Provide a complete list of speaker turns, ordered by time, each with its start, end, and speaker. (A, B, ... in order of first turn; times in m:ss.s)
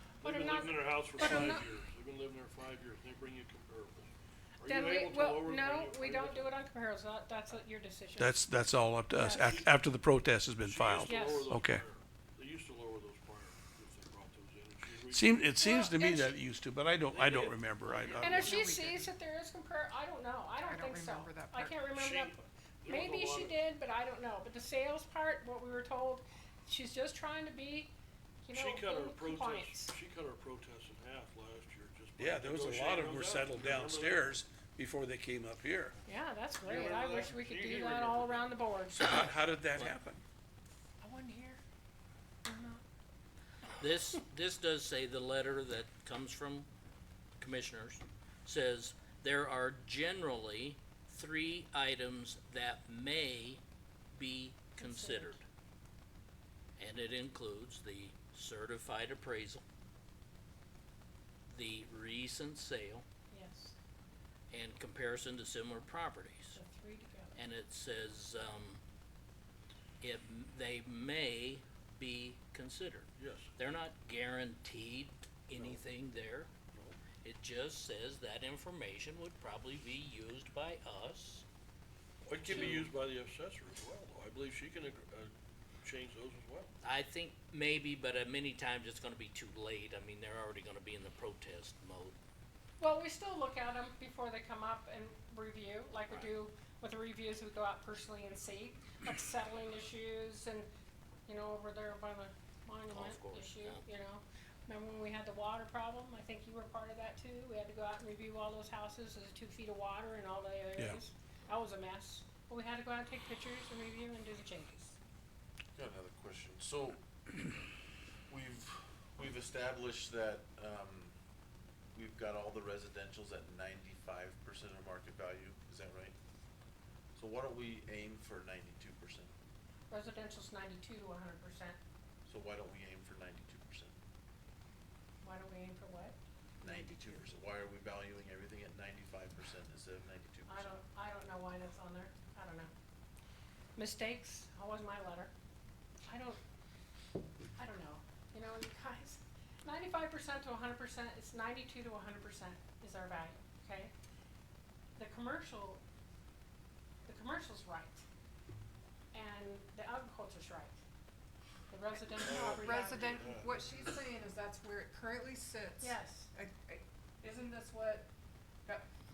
0:00.2-0:06.5 A
0:00.2-0:01.6 B
0:04.6-0:08.4 B
0:08.2-0:11.8 C
0:09.2-0:09.6 B
0:10.6-0:15.4 A
0:11.0-0:11.5 B
0:15.1-0:18.6 C
0:15.6-0:16.4 B
0:17.1-0:18.0 A
0:18.1-0:19.1 D
0:18.2-0:27.9 B
0:20.6-0:21.8 D
0:21.9-0:23.6 A
0:28.4-0:29.9 B
0:28.5-0:34.3 A
0:32.2-0:35.9 C
0:36.0-0:39.1 B
0:36.6-0:38.6 A
0:38.9-0:40.2 C
0:41.0-0:41.6 B
0:42.4-0:42.8 B
0:43.8-0:46.7 E
0:47.4-0:55.4 E
0:54.8-0:55.4 B
0:56.8-0:59.6 E
1:01.5-1:03.0 E
1:03.3-1:03.7 B
1:04.5-1:06.6 E
1:06.5-1:07.4 B
1:07.3-1:08.8 E
1:10.0-1:16.5 E
1:13.2-1:13.5 A
1:15.5-1:15.8 A
1:16.7-1:17.0 A
1:17.2-1:21.4 E
1:22.2-1:26.7 A
1:22.5-1:22.8 E
1:26.8-1:32.2 E
1:32.8-1:40.7 B
1:41.3-1:55.0 B
1:42.9-1:43.8 E
1:55.8-1:57.0 F
1:58.3-2:01.1 F
2:01.9-2:06.1 F
2:07.2-2:09.3 F
2:09.9-2:11.8 B
2:12.2-2:13.9 F
2:15.2-2:16.1 B
2:16.6-2:20.8 F
2:20.5-2:22.7 B
2:23.8-2:25.3 B
2:26.0-2:26.4 B
2:27.6-2:33.9 B
2:35.0-2:35.8 B
2:37.0-2:38.0 B
2:39.1-2:40.7 B
2:41.7-2:43.4 B
2:42.1-2:44.0 A
2:42.3-2:48.1 D
2:45.8-2:46.3 B